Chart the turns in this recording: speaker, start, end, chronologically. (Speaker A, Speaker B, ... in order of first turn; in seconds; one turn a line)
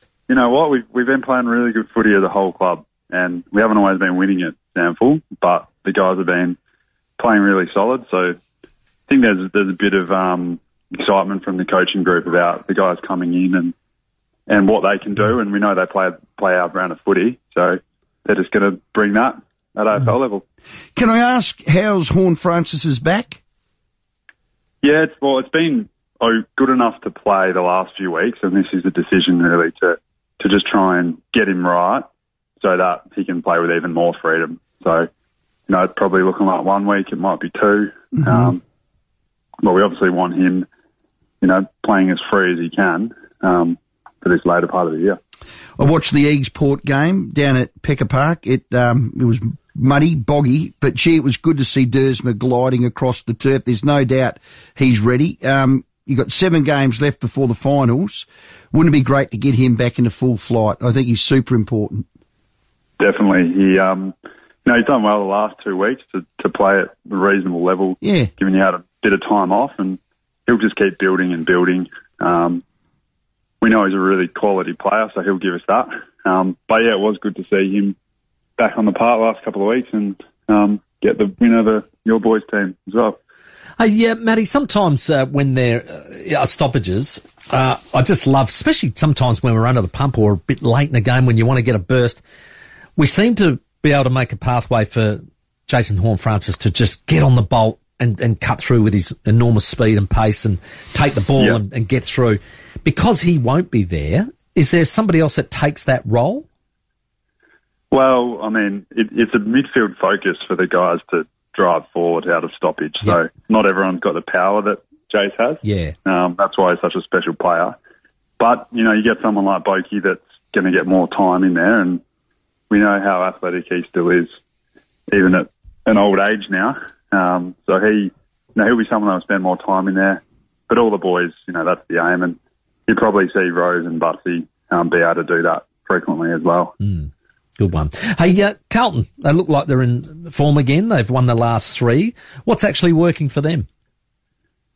Speaker A: 0.3-6.6
Speaker A: 7.2-8.4
Speaker A: 9.1-13.7
Speaker A: 14.5-20.4
Speaker B: 20.9-23.4
Speaker A: 24.8-32.1
Speaker A: 32.6-35.1
Speaker A: 35.7-38.6
Speaker A: 39.6-40.7
Speaker A: 41.4-45.2
Speaker B: 45.8-62.0
Speaker A: 63.0-72.6
Speaker B: 68.0-68.3
Speaker A: 73.6-78.0
Speaker A: 78.6-83.2
Speaker C: 83.8-92.2
Speaker C: 93.0-106.5
Speaker A: 107.9-117.8
Speaker C: 115.6-116.0
Speaker A: 118.4-122.0
Speaker A: 122.7-124.3
Speaker A: 125.1-136.8
Speaker C: 136.8-143.7